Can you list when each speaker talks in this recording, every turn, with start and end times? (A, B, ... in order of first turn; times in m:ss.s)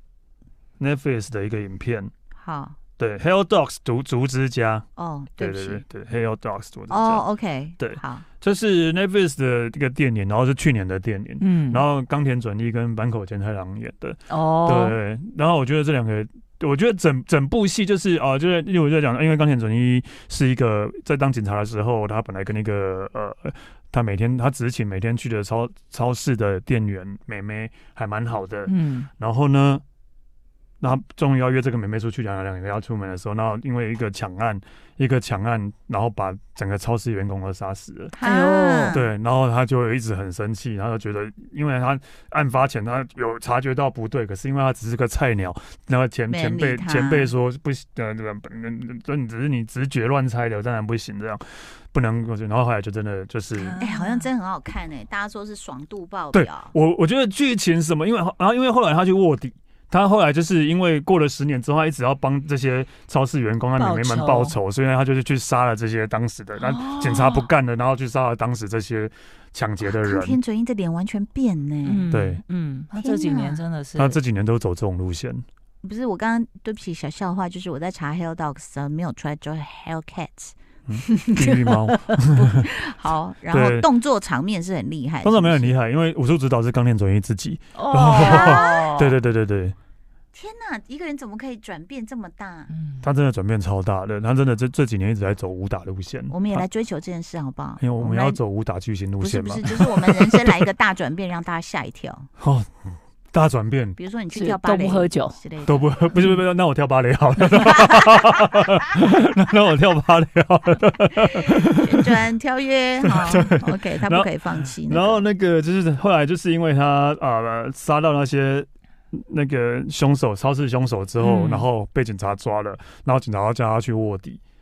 0:00.8-0:02.1 A
0:02.4-0:02.8 B
0:03.0-0:04.8 A
0:05.0-0:05.8 B
0:05.4-0:07.2 A
0:06.9-0:08.2 B
0:07.8-0:29.8 A
0:11.4-0:11.8 C
0:14.3-0:15.0 C
0:28.7-0:29.1 C
0:30.8-0:38.1 A
0:38.1-0:39.1 B
0:38.2-0:39.0 C
0:38.9-0:53.8 A
0:46.3-0:47.3 B
0:53.5-0:54.3 C
0:53.8-0:56.7 B
0:56.3-1:10.4 A
1:03.8-1:04.6 C
1:06.6-1:07.5 C
1:09.8-1:12.1 B
1:11.8-1:14.2 C
1:12.1-1:12.4 A
1:13.0-1:13.6 B
1:14.0-1:15.4 A
1:15.8-1:20.5 B
1:20.9-1:22.7 A
1:22.4-1:25.7 B
1:23.5-1:23.9 A
1:25.2-1:29.8 A
1:27.7-1:29.2 C
1:28.2-1:28.9 B
1:30.3-1:32.7 B
1:32.7-1:33.1 C
1:33.0-1:36.6 A
1:36.3-1:38.4 B
1:37.8-1:40.7 A
1:39.2-1:42.3 B
1:42.4-1:42.7 A
1:43.3-1:44.0 A
1:44.0-1:46.1 B
1:44.3-1:45.4 C
1:45.7-1:52.2 A
1:47.5-1:48.4 B
1:51.3-1:55.2 B
1:53.0-2:04.4 A
2:01.2-2:01.7 C